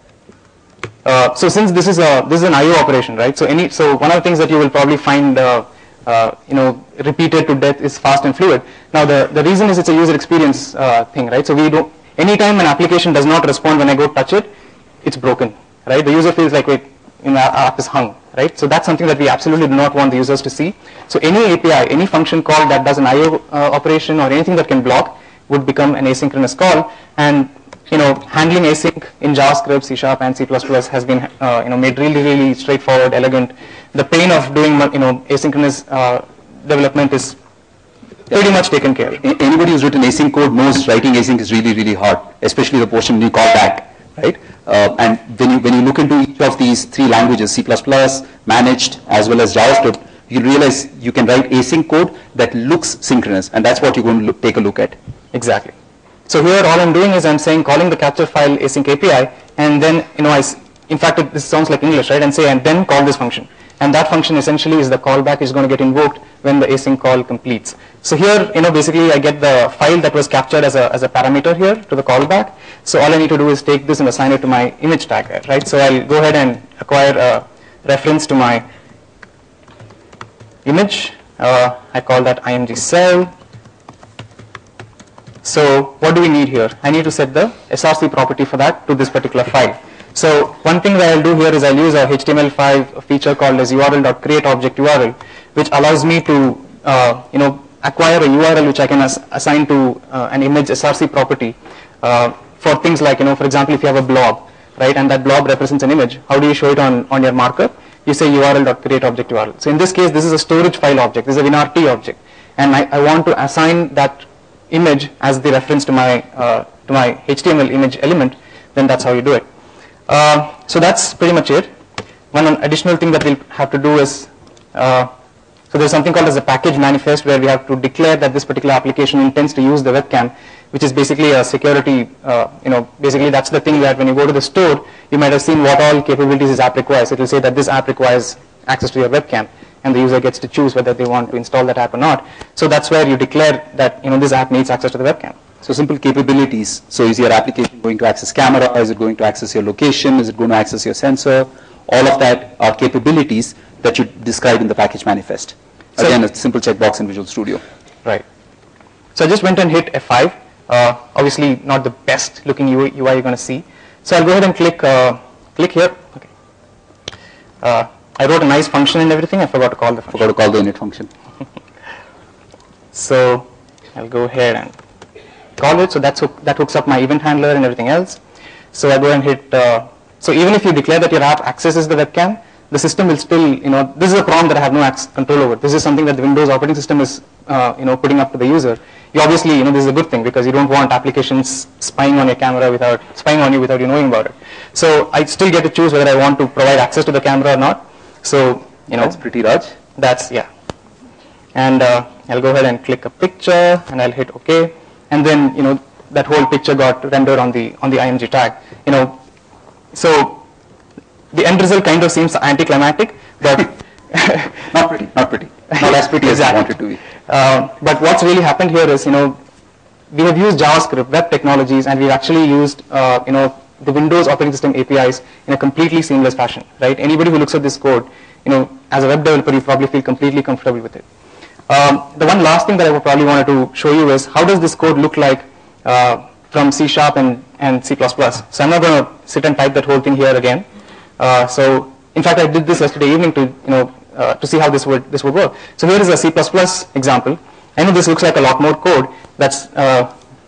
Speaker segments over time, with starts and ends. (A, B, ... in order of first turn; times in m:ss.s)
0:01.0-0:14.5 A
0:15.0-0:37.4 A
0:38.3-0:39.2 A
0:39.2-0:55.0 B
0:55.3-0:55.7 A
0:56.3-1:18.6 A
1:20.6-1:23.3 A
1:25.4-1:59.4 A
2:00.1-2:01.7 A
2:02.3-2:05.1 A
2:05.7-2:25.4 A
2:25.6-2:37.6 B
2:39.1-2:46.3 A
2:47.6-2:50.2 A
2:50.1-2:51.1 B
2:52.9-2:54.7 A
2:55.6-2:58.2 A
2:58.7-3:19.2 A
3:18.9-3:19.7 B
3:19.9-3:20.5 A
3:21.5-3:29.2 A
3:29.9-3:30.4 A
3:31.3-3:34.7 A
3:34.7-3:37.0 B
3:35.8-3:36.6 A
3:37.3-3:39.4 A
3:40.1-3:51.0 A
3:51.7-4:00.6 A
4:01.2-4:10.1 A